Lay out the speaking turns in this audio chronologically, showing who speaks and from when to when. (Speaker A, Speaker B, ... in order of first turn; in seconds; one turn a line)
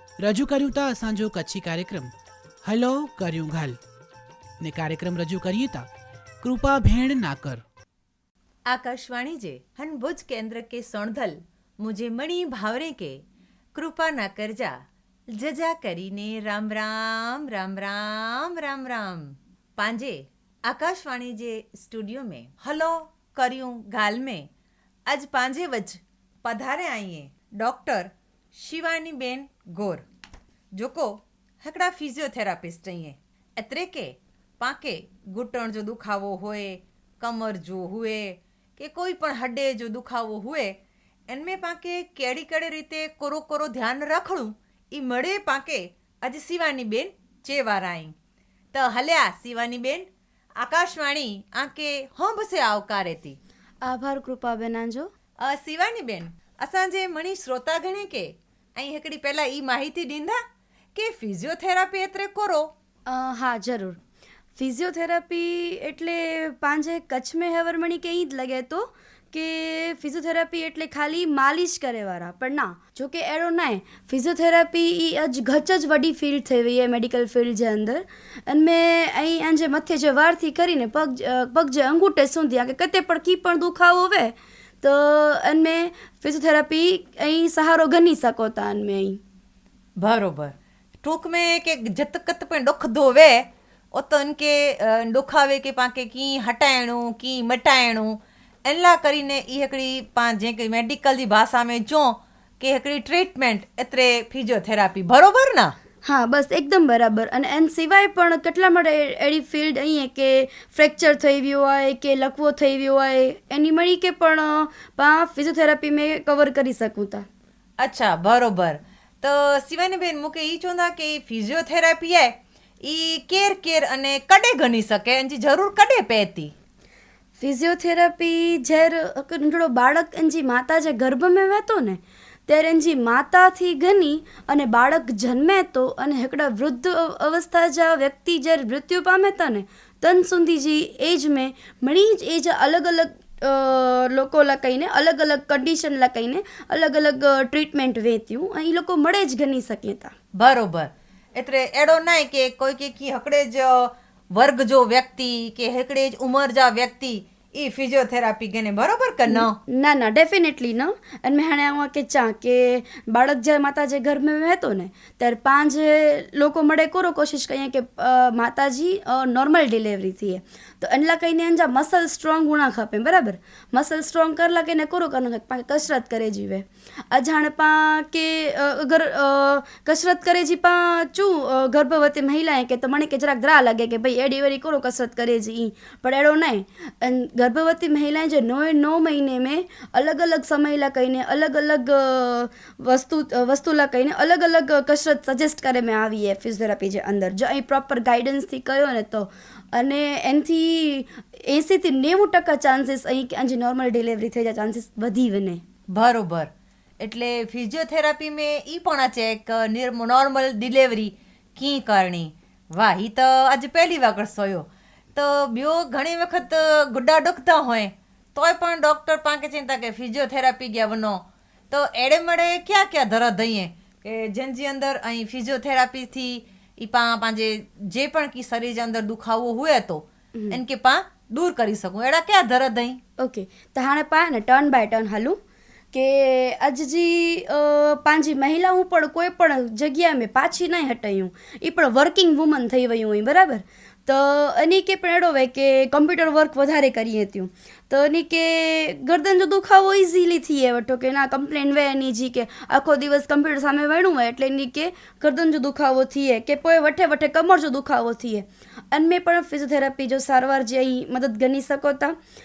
Speaker A: 0.2-3.8
Speaker A: 4.6-5.9
Speaker A: 6.4-7.6
Speaker B: 8.7-13.2
Speaker B: 13.7-14.8
Speaker B: 15.3-24.5
Speaker B: 25.1-30.0
Speaker B: 30.8-40.8
Speaker B: 41.3-48.1
Speaker B: 48.7-50.1
Speaker B: 50.6-53.4
Speaker C: 53.8-55.1
Speaker B: 55.4-60.4
Speaker B: 60.9-62.7
Speaker C: 63.1-64.0
Speaker C: 64.5-89.2
Speaker B: 90.0-105.7
Speaker C: 106.0-117.2
Speaker B: 117.8-126.5
Speaker C: 127.4-150.1
Speaker B: 150.3-159.5
Speaker C: 159.3-205.6
Speaker B: 205.9-206.5
Speaker B: 207.0-233.0
Speaker C: 233.2-235.4
Speaker C: 235.9-262.2